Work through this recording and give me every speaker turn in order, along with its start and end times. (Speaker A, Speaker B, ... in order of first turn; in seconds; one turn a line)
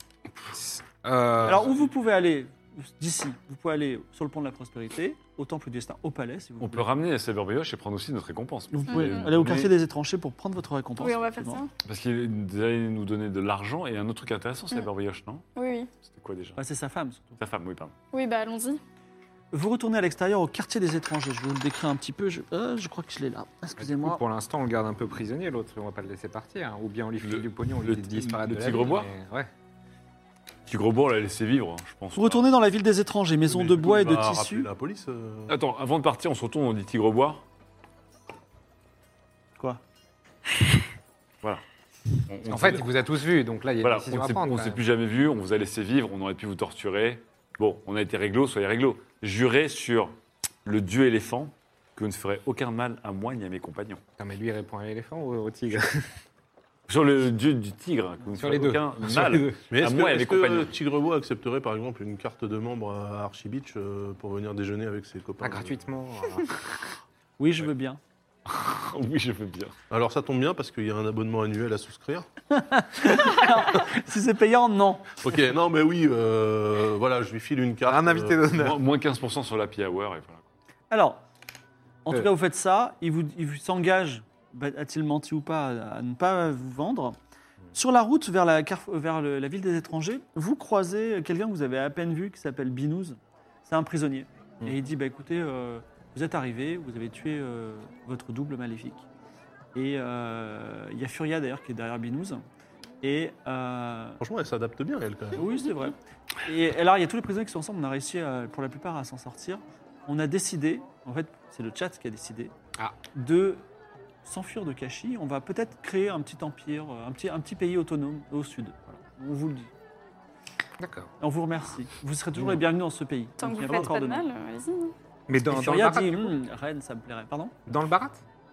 Speaker A: 0.4-1.7
Speaker B: 1.4-6.9
Speaker C: 6.6-9.7
Speaker B: 8.7-11.6
Speaker D: 8.9-9.3
Speaker D: 11.0-11.7
Speaker C: 11.8-15.5
Speaker D: 15.6-15.9
Speaker C: 16.0-16.6
Speaker B: 16.6-17.4
Speaker C: 17.4-17.9
Speaker D: 18.1-18.8
Speaker B: 19.5-24.2
Speaker A: 23.8-29.5
Speaker C: 27.2-29.1
Speaker C: 30.7-32.5
Speaker B: 32.1-34.7
Speaker E: 33.5-35.5
Speaker C: 35.5-37.4
Speaker C: 42.3-42.9
Speaker A: 42.5-44.8
Speaker C: 43.8-54.0
Speaker A: 54.2-56.2
Speaker C: 56.9-60.7
Speaker A: 58.4-59.6
Speaker E: 59.7-65.8
Speaker A: 65.4-66.5
Speaker B: 67.4-68.0
Speaker C: 68.5-69.8
Speaker E: 69.9-72.3
Speaker B: 72.5-75.2
Speaker E: 75.2-78.4
Speaker A: 77.9-78.8
Speaker C: 78.5-80.5
Speaker B: 80.9-81.2
Speaker B: 82.0-87.2
Speaker B: 87.7-99.0
Speaker B: 99.8-102.4
Speaker B: 103.0-104.2
Speaker E: 104.2-105.4
Speaker B: 105.4-112.5
Speaker B: 113.1-113.7
Speaker B: 114.2-119.7
Speaker A: 120.8-121.1
Speaker B: 121.2-124.3
Speaker D: 123.4-124.9
Speaker A: 125.3-126.3
Speaker B: 125.5-127.5
Speaker A: 127.7-128.2